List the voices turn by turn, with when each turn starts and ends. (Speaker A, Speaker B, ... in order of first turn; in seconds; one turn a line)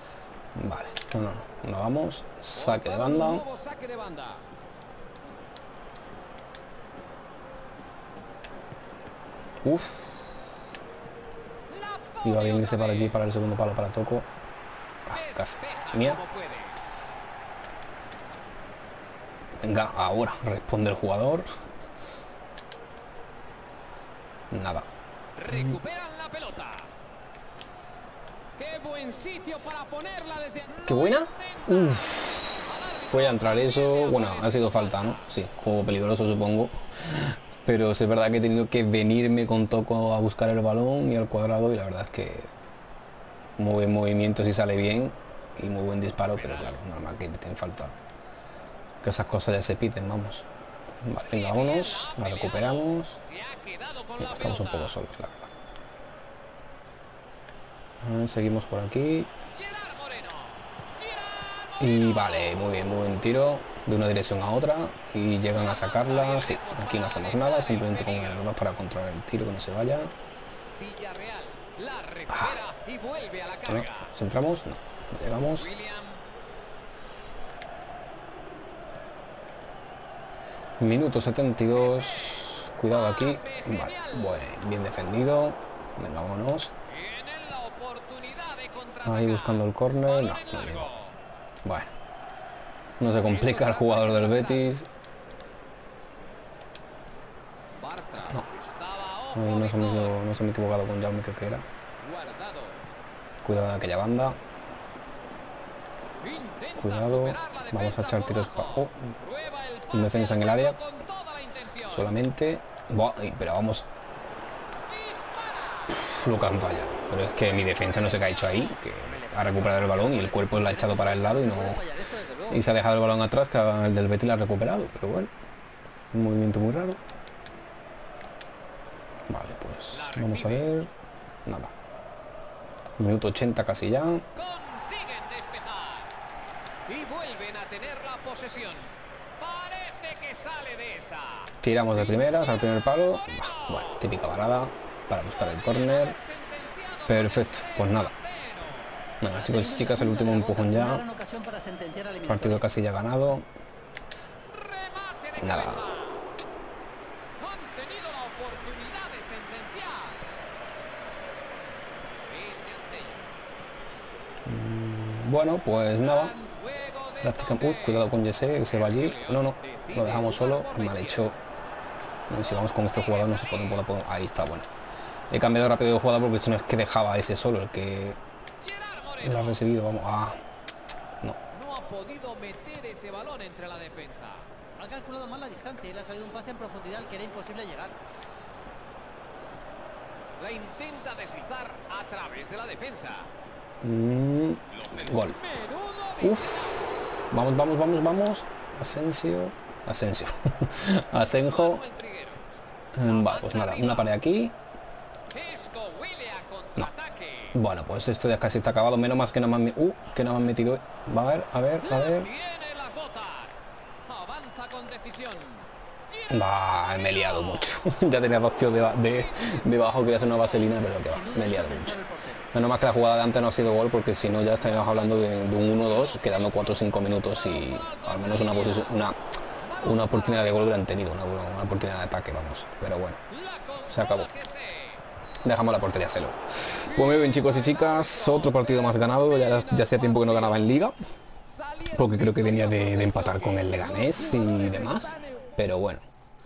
Speaker A: 0.5-3.5
Speaker B: 2.5-4.4
Speaker A: 9.6-10.3
Speaker B: 11.7-13.2
Speaker A: 12.2-14.3
Speaker A: 15.1-16.2
Speaker B: 15.1-16.8
Speaker A: 19.6-21.5
Speaker A: 24.5-24.9
Speaker B: 25.4-26.9
Speaker B: 28.6-35.3
Speaker A: 30.9-42.5
Speaker A: 43.6-47.9
Speaker B: 46.3-46.8
Speaker A: 49.0-50.5
Speaker A: 51.0-53.2
Speaker B: 51.3-55.0
Speaker A: 54.2-55.5
Speaker A: 58.0-59.3
Speaker B: 59.5-62.5
Speaker A: 61.8-70.1
Speaker B: 65.5-68.4
Speaker B: 70.8-74.1
Speaker A: 72.3-72.6
Speaker A: 73.7-75.7
Speaker B: 75.6-76.2
Speaker A: 80.8-86.7
Speaker B: 81.7-84.5
Speaker B: 86.9-91.2
Speaker A: 89.0-90.9
Speaker A: 91.6-91.9
Speaker A: 93.0-94.9
Speaker B: 93.1-94.7
Speaker B: 97.8-100.2
Speaker A: 99.3-101.7
Speaker B: 102.0-102.8
Speaker A: 103.4-104.4
Speaker B: 106.2-112.1
Speaker A: 106.8-109.1
Speaker A: 109.9-110.8
Speaker A: 111.8-113.9
Speaker B: 114.9-115.9
Speaker A: 115.9-121.8
Speaker B: 117.5-118.8
Speaker C: 119.0-122.6
Speaker A: 122.5-125.3
Speaker A: 126.1-127.0
Speaker A: 129.3-130.9
Speaker B: 129.9-130.7
Speaker A: 131.4-131.7
Speaker A: 133.0-134.2
Speaker B: 134.3-136.1
Speaker B: 136.8-142.7
Speaker A: 141.6-146.2
Speaker B: 143.4-144.0
Speaker B: 145.3-148.9
Speaker A: 147.1-148.1
Speaker A: 149.2-151.0
Speaker C: 149.3-152.7
Speaker A: 152.2-153.5
Speaker B: 154.5-156.2
Speaker A: 155.4-155.9
Speaker B: 157.4-160.2
Speaker B: 162.2-163.3
Speaker A: 164.4-166.3
Speaker B: 166.0-171.3
Speaker A: 167.2-171.4
Speaker A: 172.3-174.7
Speaker B: 172.3-173.8
Speaker A: 175.3-178.2
Speaker B: 178.6-179.6
Speaker A: 179.2-180.4
Speaker B: 181.5-184.5
Speaker C: 184.8-187.9
Speaker B: 190.4-193.3
Speaker A: 193.8-195.4
Speaker B: 194.7-196.9
Speaker A: 196.2-201.8
Speaker B: 201.4-204.2
Speaker A: 202.9-204.5
Speaker B: 205.3-207.6
Speaker A: 207.5-212.3
Speaker B: 211.8-217.7
Speaker A: 216.3-222.0
Speaker B: 219.0-220.8
Speaker C: 220.9-222.5
Speaker A: 222.5-229.2
Speaker B: 224.6-229.0
Speaker B: 229.6-230.7
Speaker A: 229.8-233.2
Speaker B: 233.3-235.0
Speaker A: 233.9-234.3
Speaker A: 235.4-240.9
Speaker B: 236.8-240.7
Speaker B: 241.4-245.6
Speaker A: 241.8-246.0